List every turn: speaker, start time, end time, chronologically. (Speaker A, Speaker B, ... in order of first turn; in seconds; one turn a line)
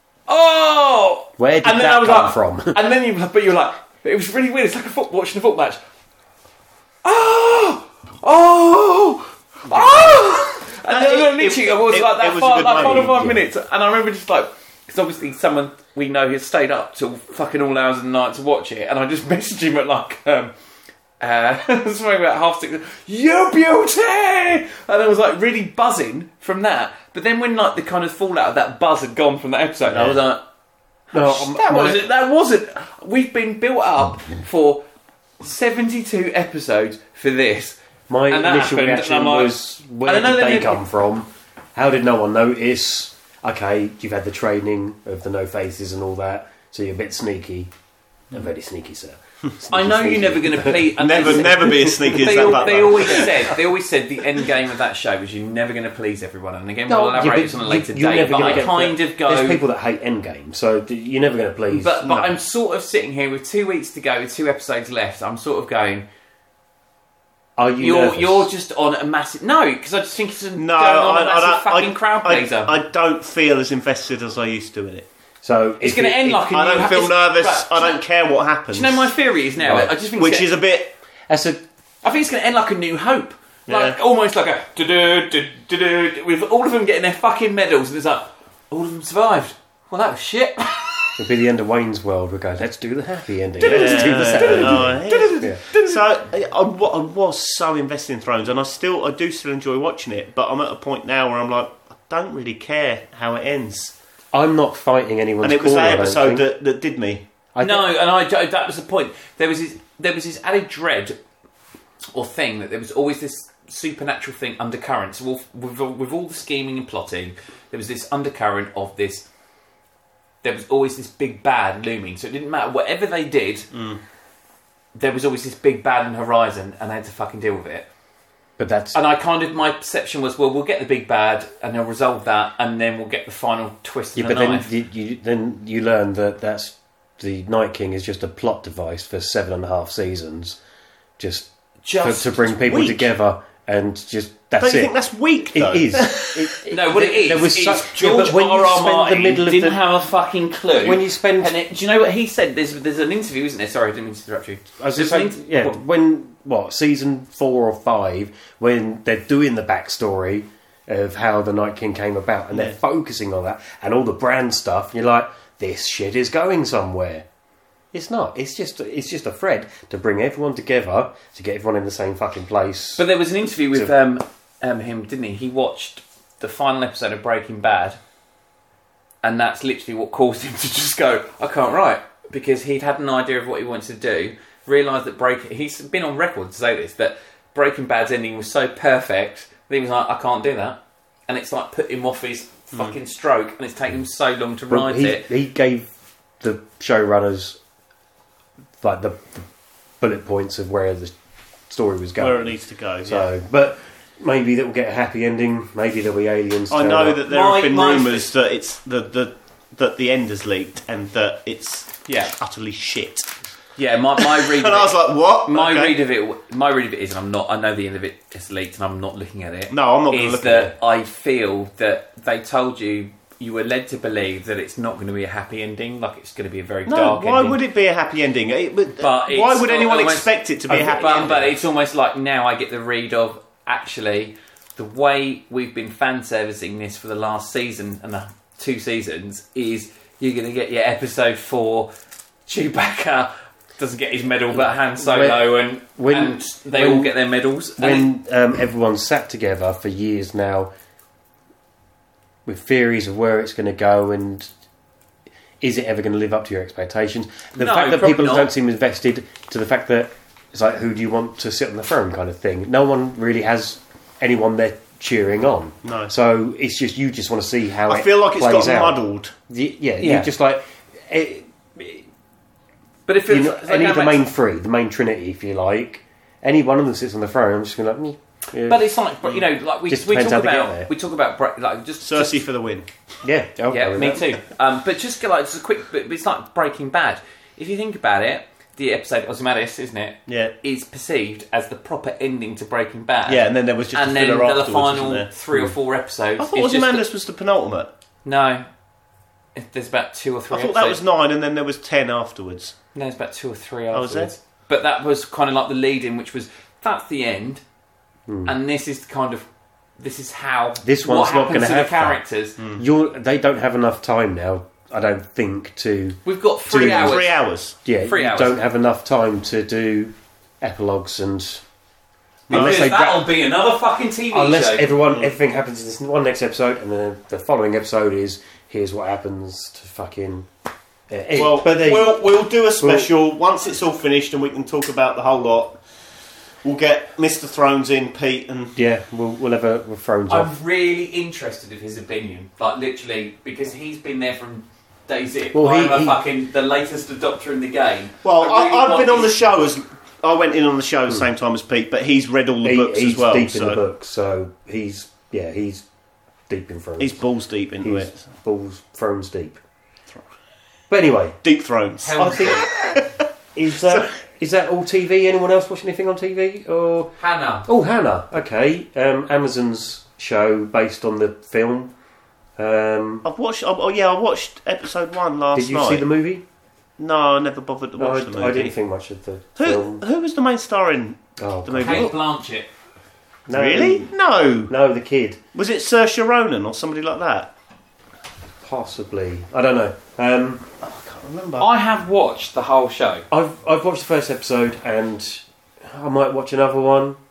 Speaker A: 0.3-5.8
Speaker B: 1.4-2.8
Speaker A: 7.0-20.5
Speaker C: 10.9-13.3
Speaker B: 12.8-13.4
Speaker A: 21.2-30.4
Speaker A: 31.1-34.8
Speaker B: 31.1-32.0
Speaker A: 35.4-37.8
Speaker B: 38.1-47.7
Speaker A: 38.3-40.8
Speaker B: 48.3-53.3
Speaker A: 49.7-59.6
Speaker C: 51.0-53.6
Speaker B: 56.9-62.1
Speaker A: 61.7-66.1
Speaker C: 62.1-62.3
Speaker B: 67.6-68.5
Speaker A: 67.8-72.8
Speaker C: 70.6-75.1
Speaker B: 75.4-76.5
Speaker A: 75.8-78.0
Speaker C: 76.5-79.1
Speaker A: 78.7-80.5
Speaker B: 79.6-79.9
Speaker C: 80.2-81.0
Speaker B: 81.3-81.6
Speaker A: 82.0-91.2
Speaker C: 83.7-84.0
Speaker B: 91.2-95.6
Speaker A: 93.6-96.0
Speaker C: 93.6-103.9
Speaker B: 104.3-106.4
Speaker C: 105.4-107.2
Speaker B: 107.5-107.9
Speaker A: 107.6-111.2
Speaker A: 112.1-119.3
Speaker A: 120.4-123.7
Speaker C: 123.7-124.0
Speaker A: 125.0-127.9
Speaker B: 128.6-129.0
Speaker A: 128.9-134.7
Speaker B: 134.2-140.6
Speaker B: 141.2-141.5
Speaker A: 141.8-142.6
Speaker B: 142.0-149.8
Speaker C: 142.7-143.1
Speaker C: 144.6-146.5
Speaker A: 146.7-155.8
Speaker B: 150.8-151.6
Speaker B: 154.8-167.3
Speaker B: 167.9-173.0
Speaker A: 173.0-178.0
Speaker A: 179.2-195.3
Speaker B: 194.7-195.9
Speaker B: 196.4-197.6
Speaker B: 198.8-199.5
Speaker B: 200.0-201.2
Speaker B: 201.7-207.2
Speaker C: 202.2-203.3
Speaker C: 206.7-213.3
Speaker A: 207.3-208.3
Speaker A: 212.1-212.3
Speaker A: 213.8-227.6
Speaker C: 214.2-216.0
Speaker C: 219.7-220.7
Speaker C: 226.9-231.6
Speaker A: 229.0-241.9
Speaker B: 230.7-231.2
Speaker A: 242.5-248.1
Speaker B: 244.6-247.1
Speaker B: 247.8-250.7
Speaker B: 252.5-254.5
Speaker B: 255.6-272.1
Speaker A: 257.6-258.5
Speaker C: 265.9-266.1
Speaker C: 267.9-269.3
Speaker A: 270.0-270.3
Speaker A: 273.1-274.2
Speaker B: 273.3-278.9
Speaker A: 278.6-282.4
Speaker B: 279.9-280.9
Speaker C: 282.0-282.9
Speaker B: 283.2-284.4
Speaker A: 283.7-297.0
Speaker C: 290.3-290.6
Speaker C: 293.3-295.7
Speaker C: 296.4-297.9
Speaker A: 298.2-298.7
Speaker A: 299.6-301.0
Speaker C: 300.5-302.8
Speaker A: 302.9-307.6
Speaker C: 303.9-304.3
Speaker B: 308.3-308.5
Speaker A: 308.4-309.5
Speaker A: 310.0-312.6
Speaker B: 310.8-312.2
Speaker C: 312.6-312.8
Speaker B: 312.8-317.2
Speaker A: 316.2-317.4
Speaker C: 316.7-317.8
Speaker B: 317.8-321.6
Speaker A: 318.0-318.6
Speaker B: 322.5-323.3
Speaker A: 322.5-324.9
Speaker C: 322.5-322.8
Speaker B: 324.3-330.5
Speaker B: 331.1-332.2
Speaker C: 331.4-335.8
Speaker B: 332.8-333.1
Speaker C: 336.6-338.8
Speaker B: 338.8-340.5
Speaker A: 340.3-349.3
Speaker B: 345.5-346.2
Speaker C: 348.2-353.8
Speaker B: 352.6-355.9
Speaker B: 356.5-357.2
Speaker C: 357.0-358.1
Speaker B: 357.8-359.6
Speaker B: 360.9-361.4
Speaker C: 361.4-363.2
Speaker A: 362.0-362.7
Speaker B: 362.2-362.6
Speaker B: 363.6-367.1
Speaker A: 367.2-367.7
Speaker B: 367.7-371.9
Speaker B: 372.6-373.2
Speaker C: 373.2-376.1
Speaker B: 375.6-376.4
Speaker C: 377.0-378.7
Speaker B: 378.0-380.0
Speaker C: 379.6-382.1
Speaker B: 381.4-382.1
Speaker A: 381.8-382.7
Speaker B: 383.5-384.1
Speaker C: 383.5-384.7
Speaker B: 384.7-385.4
Speaker C: 385.5-387.5
Speaker B: 388.6-390.7
Speaker C: 390.8-391.7
Speaker A: 391.6-393.3
Speaker B: 393.3-397.2